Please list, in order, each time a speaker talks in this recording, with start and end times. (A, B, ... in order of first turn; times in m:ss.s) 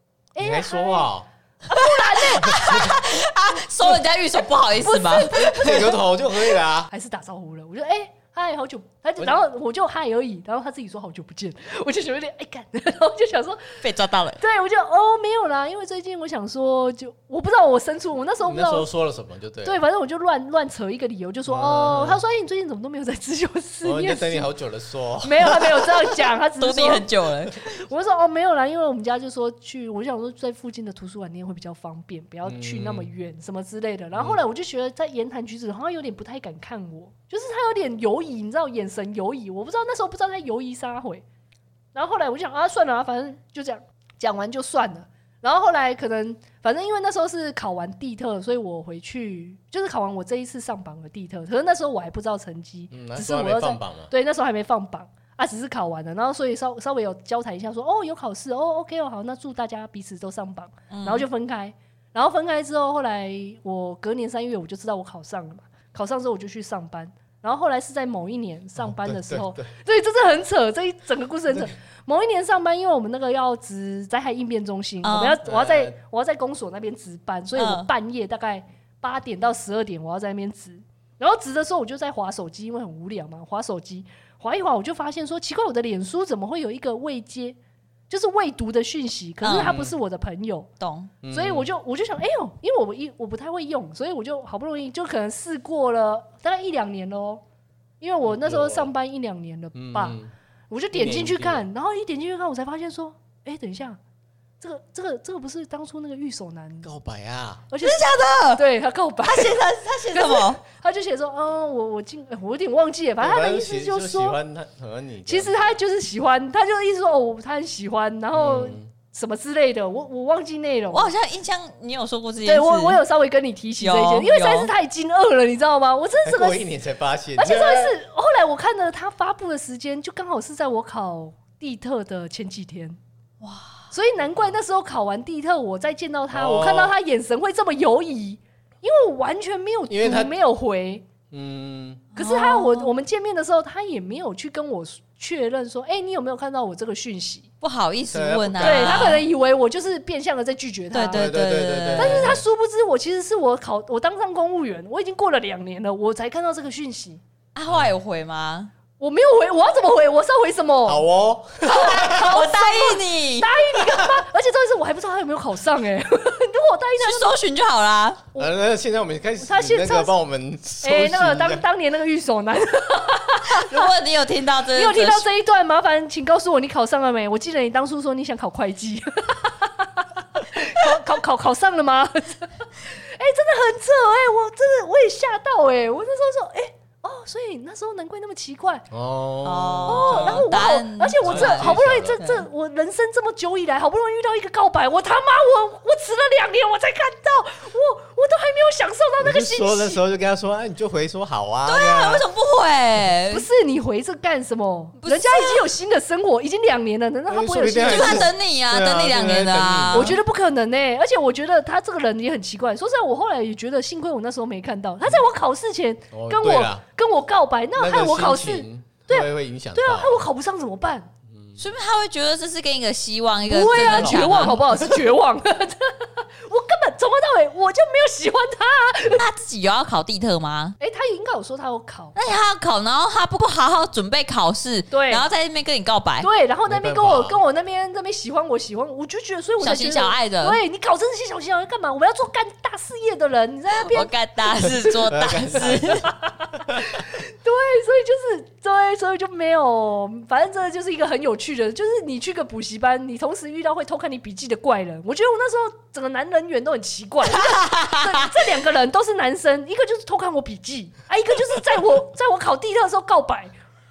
0:00.3-0:01.1 A
0:00.4-0:01.3 B
0:01.7-0:02.8 A
0:01.7-0:05.7 C
0:02.4-0:02.9 B
0:04.8-0:13.8 A
0:05.4-0:06.9 B
0:13.8-0:14.4 C
0:14.4-0:18.9 A
0:18.4-0:19.8 B
0:19.6-0:24.5 A
0:21.5-0:22.2 B
0:23.8-0:26.1 B
0:25.2-0:27.1 A
0:26.6-0:27.6 C
0:27.6-0:41.2 A
0:32.4-0:33.1 B
0:34.1-0:34.4 B
0:41.9-1:27.6 A
0:52.9-0:54.1 B
1:00.9-1:01.3 C
1:08.8-1:09.7 B
1:15.0-1:15.4 C
1:15.4-1:16.0 B
1:17.6-1:17.9 C
1:28.1-1:30.7 A
1:29.4-1:29.7 C
1:29.5-1:29.9 B
1:30.8-1:31.1 C
1:31.2-1:31.7 B
1:31.3-1:37.4 A
1:38.0-1:40.2 A
1:38.2-1:38.9 B
1:39.7-1:40.3 B
1:40.7-1:44.0 A
1:40.9-1:41.7 B
1:44.6-1:46.9 A
1:46.8-1:47.6 B
1:47.7-1:54.4 A
1:47.8-1:48.6 C
1:49.2-1:50.6 C
1:53.2-1:55.7 B
1:55.2-2:01.1 A
1:58.3-1:58.9 B
2:00.9-2:03.0 C
2:02.4-2:06.6 A
2:03.8-2:04.7 C
2:06.2-2:07.9 B
2:07.4-2:13.0 A
2:13.4-2:13.8 C
2:13.9-2:21.1 A
2:16.3-2:16.9 B
2:19.9-2:20.3 B
2:21.3-2:22.0 B
2:22.1-2:22.9 C
2:22.2-2:27.5 A
2:27.6-2:29.2 C
2:28.1-2:29.2 B
2:28.6-2:31.3 A
2:30.9-2:32.4 C
2:31.1-2:32.4 B
2:32.0-2:37.2 A
2:37.5-2:38.7 C
2:37.7-2:37.9 B
2:39.0-2:41.0 A
2:40.8-2:42.3 B
2:41.6-2:47.3 A
2:41.7-2:43.5 C
2:43.9-2:44.2 B
2:47.0-2:48.2 C
2:48.4-2:51.6 B
2:49.4-2:50.1 A
2:50.8-2:53.9 A
2:53.5-2:55.2 C
2:54.7-3:08.9 A
3:08.9-3:10.5 B
3:09.4-3:12.4 C
3:09.9-3:20.0 A
3:11.2-3:12.2 B
3:19.2-3:22.2 B
3:21.6-3:23.4 C
3:23.3-3:28.3 A
3:25.0-3:25.7 C
3:27.3-3:30.2 B
3:27.8-3:30.2 C
3:29.9-3:41.1 A
3:36.1-3:36.8 B
3:37.8-3:40.2 B
3:41.3-3:41.6 B
3:41.6-3:44.6 C
3:43.5-3:49.2 A
3:43.7-3:44.7 B
3:49.1-3:50.8 C
3:50.8-3:52.2 A
3:52.1-3:56.3 C
3:54.9-3:55.2 A
3:56.2-4:05.0 A
3:56.7-3:57.4 B
3:59.6-4:00.6 C
4:03.8-4:06.1 C
4:05.1-4:06.1 B
4:06.0-4:23.5 A
4:06.7-4:07.0 B
4:17.3-4:18.1 C